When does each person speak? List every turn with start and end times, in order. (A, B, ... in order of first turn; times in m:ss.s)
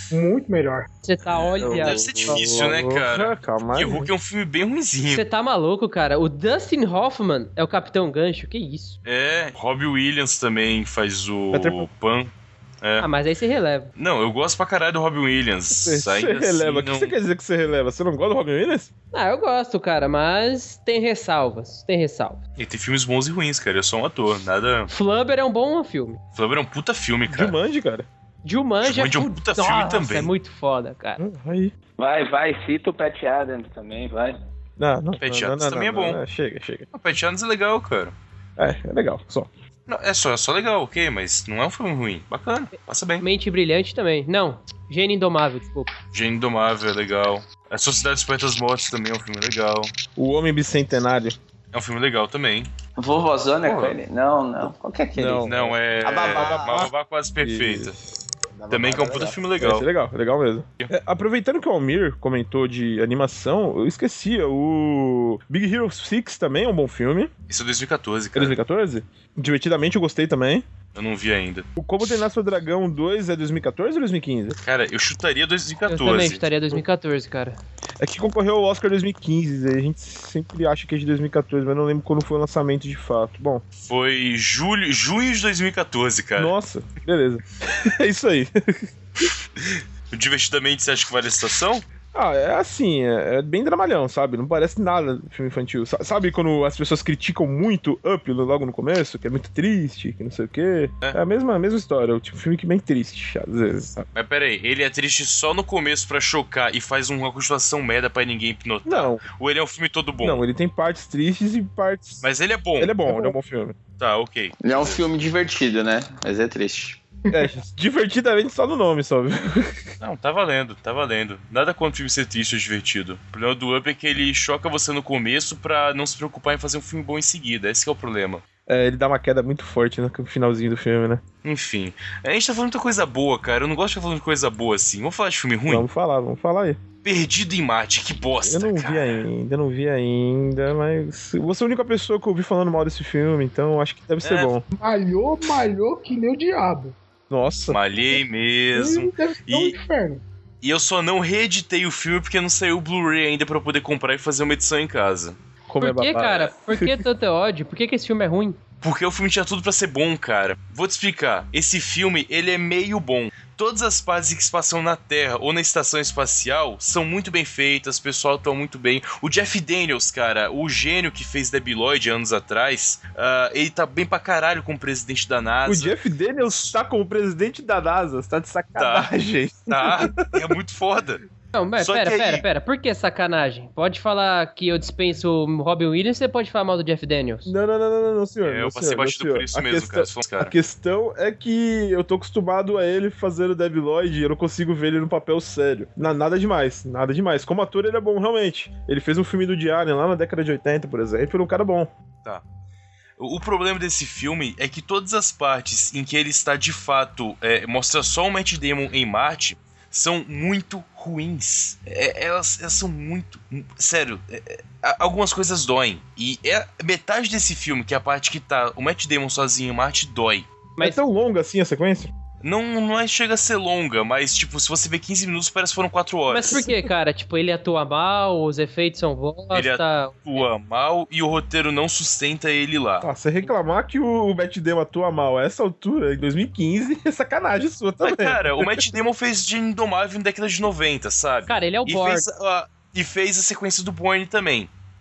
0:00.1-0:00.9 A
0:01.0-0:02.5 B
0:01.4-0:05.2 C
0:01.6-0:04.1 D
0:05.1-0:09.0 B
0:09.0-0:13.1 C
0:11.5-0:11.9 D
0:13.0-0:13.9 B
0:14.0-0:17.1 C
0:15.8-0:18.9 D
0:19.1-0:22.4 B
0:22.6-0:24.9 C
0:24.9-0:26.2 B
0:26.3-0:27.5 C
0:27.3-0:28.1 D
0:28.4-0:31.2 B
0:28.8-0:30.3 C
0:31.2-0:31.7 D
0:32.0-0:34.4 E
0:34.8-0:36.9 D
0:35.2-0:36.2 C
0:36.9-0:38.1 C
0:38.6-0:39.5 D
0:39.9-0:43.2 C
0:43.2-0:45.9 B
0:46.1-0:49.9 C
0:50.2-0:51.4 D
0:51.7-0:52.7 C
0:53.0-0:56.8 E
0:53.6-0:54.0 C
0:55.1-0:56.9 D
0:55.4-0:58.0 C
0:57.4-0:57.9 D
0:58.7-0:59.4 E
0:58.7-0:59.9 C
0:59.6-1:07.3 D
1:07.5-1:08.6 C
1:08.3-1:10.6 D
1:10.9-1:11.6 C
1:11.8-1:14.6 D
1:14.6-1:16.4 C
1:15.9-1:17.6 B
1:18.0-1:23.6 D
1:23.8-1:26.5 C
1:26.4-1:29.3 D
1:29.6-1:31.8 C
1:32.1-1:44.1 D
1:44.1-1:50.4 C
1:48.8-1:49.2 D
1:50.2-1:52.2 D
1:52.2-1:53.0 C
1:52.8-1:53.8 D
1:54.0-1:55.0 C
1:54.6-1:57.0 E
1:57.3-1:59.9 D
2:00.0-2:08.4 C
2:08.7-2:11.2 D
2:11.4-2:15.8 C
2:15.7-2:16.8 D
2:17.0-2:19.2 C
2:18.4-2:24.6 D
2:24.2-2:24.6 C
2:24.8-2:27.0 A
2:27.3-2:27.8 D
2:27.7-2:29.8 C
2:28.7-2:30.2 A
2:30.6-2:35.4 C
2:35.7-2:37.0 D
2:35.8-2:38.6 B
2:38.8-2:56.7 C
2:55.6-3:00.4 D
2:58.8-2:59.1 C
2:59.7-3:01.2 C
3:01.5-3:07.5 B
3:01.8-3:02.4 C
3:07.4-3:21.9 D
3:08.4-3:10.5 C
3:23.2-3:40.5 C
3:40.8-3:42.1 D
3:42.4-3:46.7 C
3:46.3-3:50.2 B
3:49.5-3:53.1 C
3:53.0-3:58.9 D
3:58.0-4:04.7 C
4:01.5-4:02.2 B